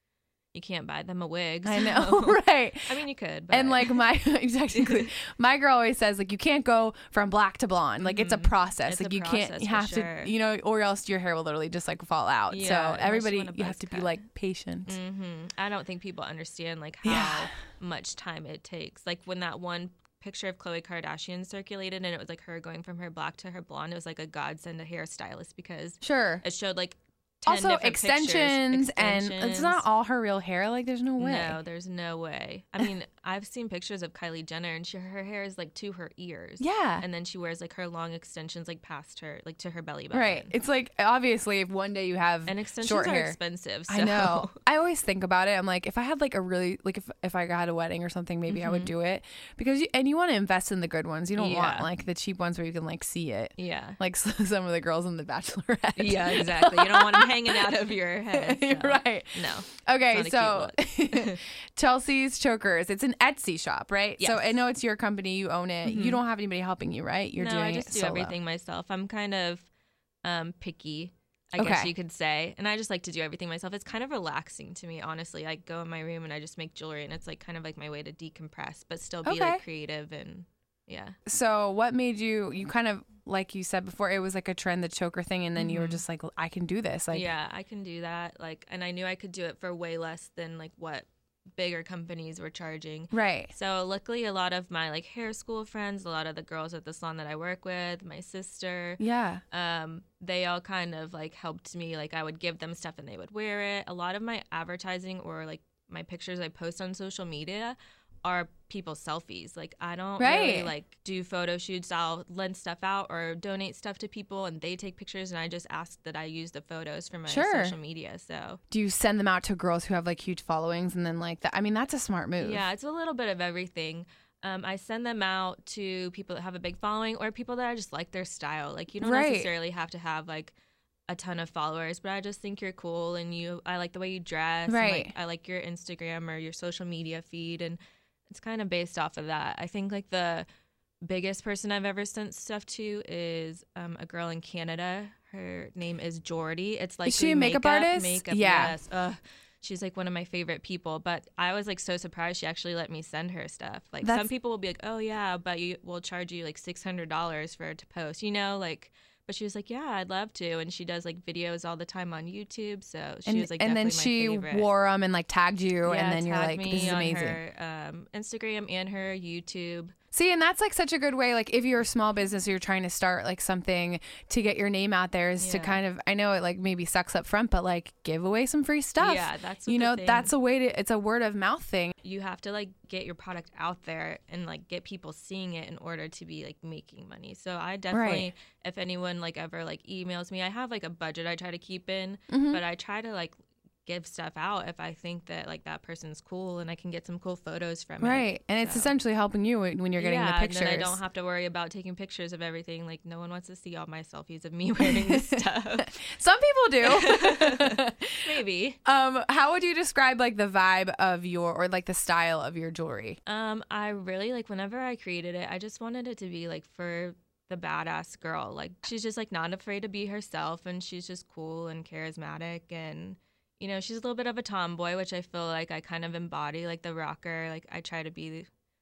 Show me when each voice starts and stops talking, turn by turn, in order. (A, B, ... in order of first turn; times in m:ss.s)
0:00.5-0:04.0 A
0:01.6-0:02.9 B
0:03.5-0:15.0 B
0:04.7-0:05.1 A
0:08.0-0:10.3 A
0:12.5-0:14.2 A
0:14.8-0:29.8 A
0:17.0-0:17.5 B
0:26.0-0:26.4 B
0:27.4-0:31.6 B
0:31.2-0:40.5 A
0:36.6-0:37.0 B
0:40.1-0:43.4 B
0:42.4-0:44.6 A
0:43.9-0:57.7 B
0:48.5-0:48.9 A
0:51.4-0:51.9 A
0:53.6-0:54.0 A
0:56.0-1:01.4 A
0:58.3-1:08.3 B
1:04.2-1:04.5 A
1:05.8-1:06.2 A
1:07.4-1:09.7 A
1:10.2-1:21.2 A
1:11.6-1:11.9 B
1:19.2-1:19.6 B
1:21.2-1:27.3 B
1:25.6-1:26.0 A
1:27.1-1:58.6 A
1:33.1-1:33.5 B
1:39.0-1:39.4 B
1:50.2-1:50.7 B
1:57.3-1:57.7 B
1:58.7-2:02.6 B
2:02.4-2:10.5 A
2:09.0-2:09.5 B
2:11.1-2:17.8 A
2:14.7-2:15.1 B
2:18.3-2:20.4 A
2:21.0-2:44.7 A
2:27.0-2:28.7 B
2:34.0-2:34.3 B
2:43.2-2:47.4 B
2:45.8-2:49.9 A
2:50.1-3:01.9 B
2:55.4-2:55.8 A
2:59.0-3:00.3 A
3:02.0-3:13.3 A
3:07.9-3:08.3 B
3:12.3-3:12.6 B
3:13.8-3:18.9 A
3:18.0-3:21.0 B
3:20.0-3:25.9 A
3:24.8-3:28.2 B
3:26.8-3:28.8 A
3:28.8-3:33.2 B
3:33.2-3:48.5 A